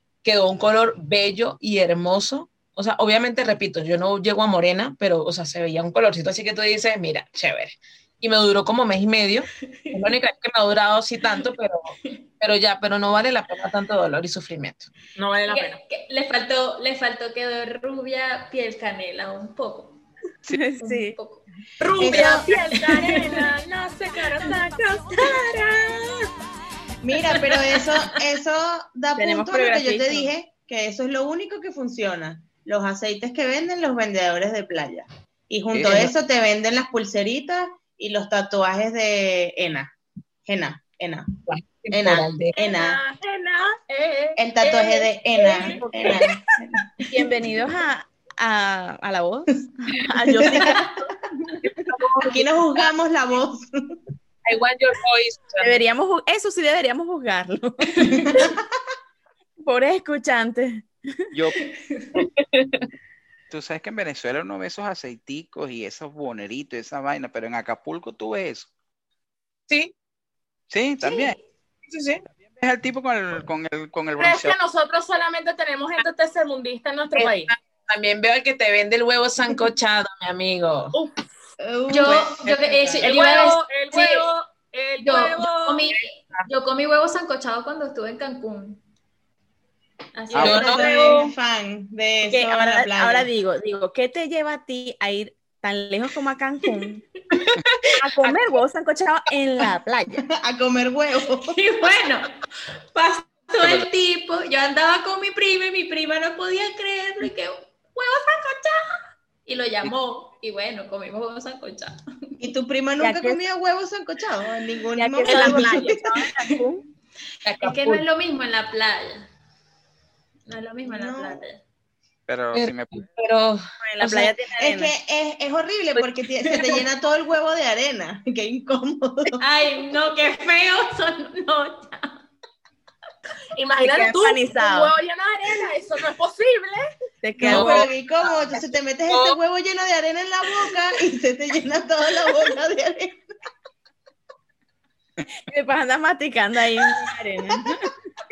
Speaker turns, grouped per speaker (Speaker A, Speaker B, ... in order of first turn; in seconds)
Speaker A: 0.2-14.9, 41.5-42.5, 51.6-52.9, 54.4-55.8, 62.1-62.8, 71.9-72.2, 77.1-80.9, 90.4-91.3, 97.3-97.9, 117.4-118.0, 122.5-124.3, 137.5-137.9, 139.1-139.4
Speaker B: 9.8-10.2, 15.4-20.0, 20.8-21.4, 22.0-23.5, 25.3-25.6, 27.3-28.1, 58.0-58.4, 61.6-62.1, 71.0-71.3, 81.9-83.6, 85.0-88.8, 90.1-91.2, 101.4-102.3, 102.9-108.8, 109.4-112.0, 117.6-119.3, 120.5-121.6, 129.4-132.2
Speaker C: 15.2-15.8, 21.8-25.8, 42.5-46.2, 74.2-77.5, 83.0-85.8, 115.2-116.0, 133.5-136.9
Speaker D: 20.5-21.1, 29.2-30.3, 47.1-51.5, 55.6-58.2, 59.6-60.9, 92.3-97.0, 98.0-100.2, 113.0-113.4, 115.0-116.8, 123.8-124.9, 133.8-134.9, 137.2-137.9, 145.5-147.9
Speaker E: 22.0-22.5, 27.0-39.9, 40.5-41.3, 41.9-43.0, 44.4-46.7, 50.5-50.8, 52.2-54.0, 81.6-83.0, 90.4-93.3, 100.3-101.6, 112.4-116.1, 120.8-121.4, 124.6-129.4, 137.4-143.2
Speaker F: 35.7-36.1, 63.5-68.7, 70.7-71.4, 72.6-74.5, 90.3-90.7, 103.6-103.9, 122.3-123.0